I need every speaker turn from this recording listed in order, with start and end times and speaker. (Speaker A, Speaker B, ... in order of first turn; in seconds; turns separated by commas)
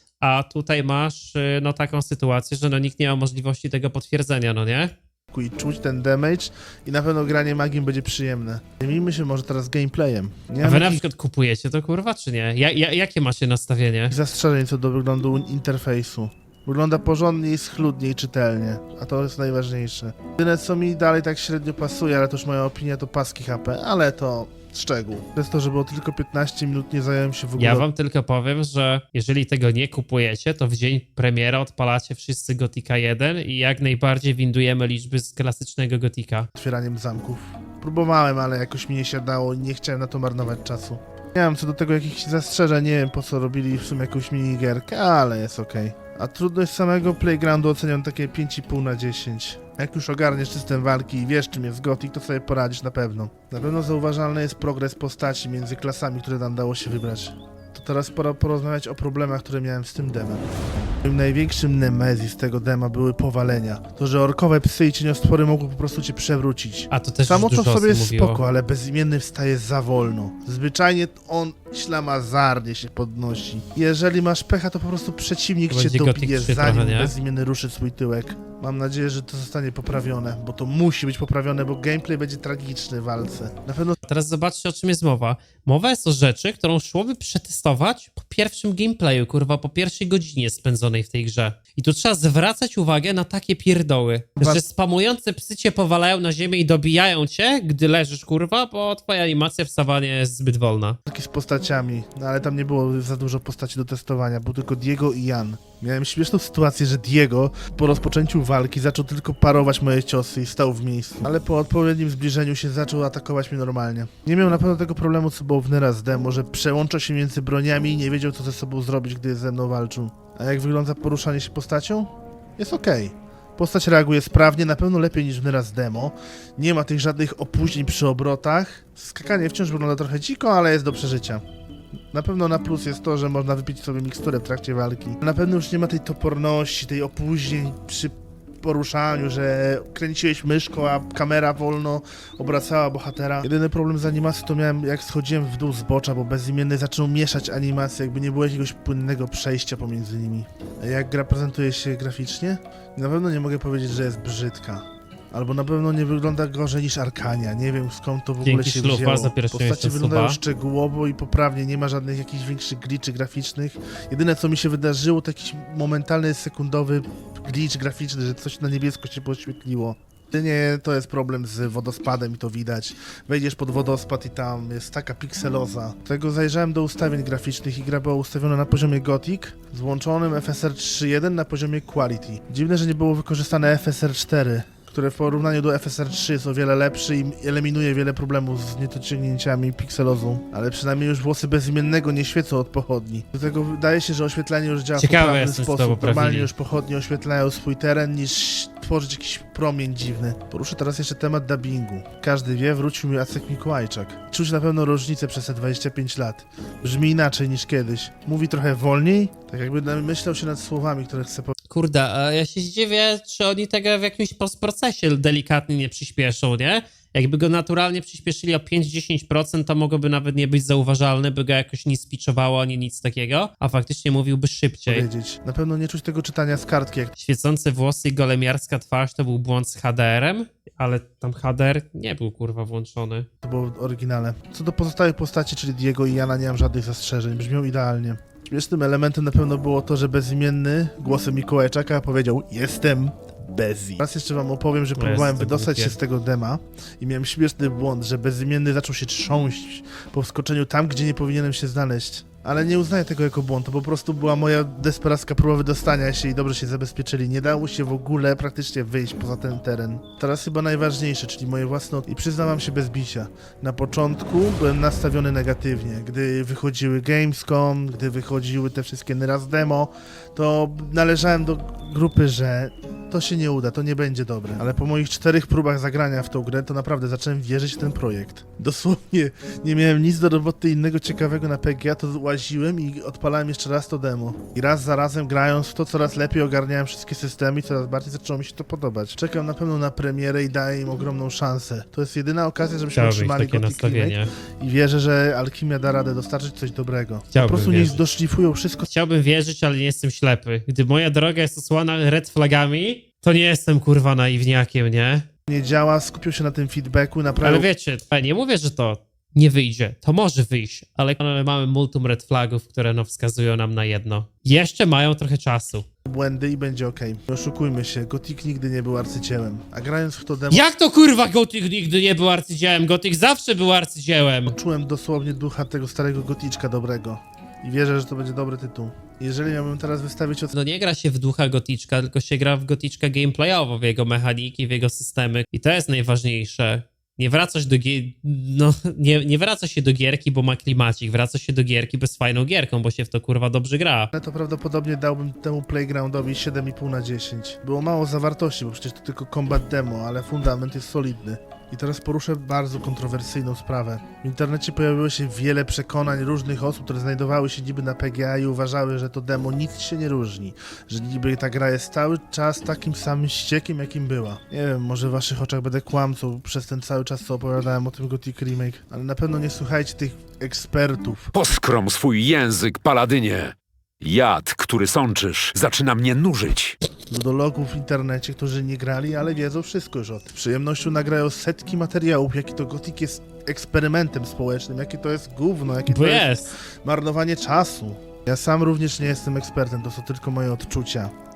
Speaker A: 0.2-4.9, Speaker B: 5.3-11.0, Speaker A: 10.6-14.1, Speaker B: 14.1-27.9, Speaker A: 27.6-36.5, Speaker B: 36.6-84.0, Speaker A: 66.9-68.4, Speaker A: 75.7-77.1, Speaker A: 84.1-101.0, Speaker B: 94.4-94.7, Speaker B: 101.1-131.4, Speaker B: 132.1-211.5, Speaker A: 158.4-160.4, Speaker A: 195.0-196.5, Speaker A: 211.7-225.1, Speaker B: 224.9-227.1, Speaker A: 227.2-233.3, Speaker B: 233.4-298.9, Speaker A: 245.0-246.0, Speaker A: 292.9-294.3, Speaker A: 297.3-298.0, Speaker A: 298.9-305.2, Speaker B: 305.5-307.7, Speaker A: 307.4-315.9, Speaker B: 316.1-320.7, Speaker A: 320.5-324.6, Speaker B: 324.5-330.5, Speaker A: 330.5-344.1, Speaker B: 344.1-371.3, Speaker C: 371.3-376.8, Speaker B: 377.1-391.1, Speaker A: 385.9-386.5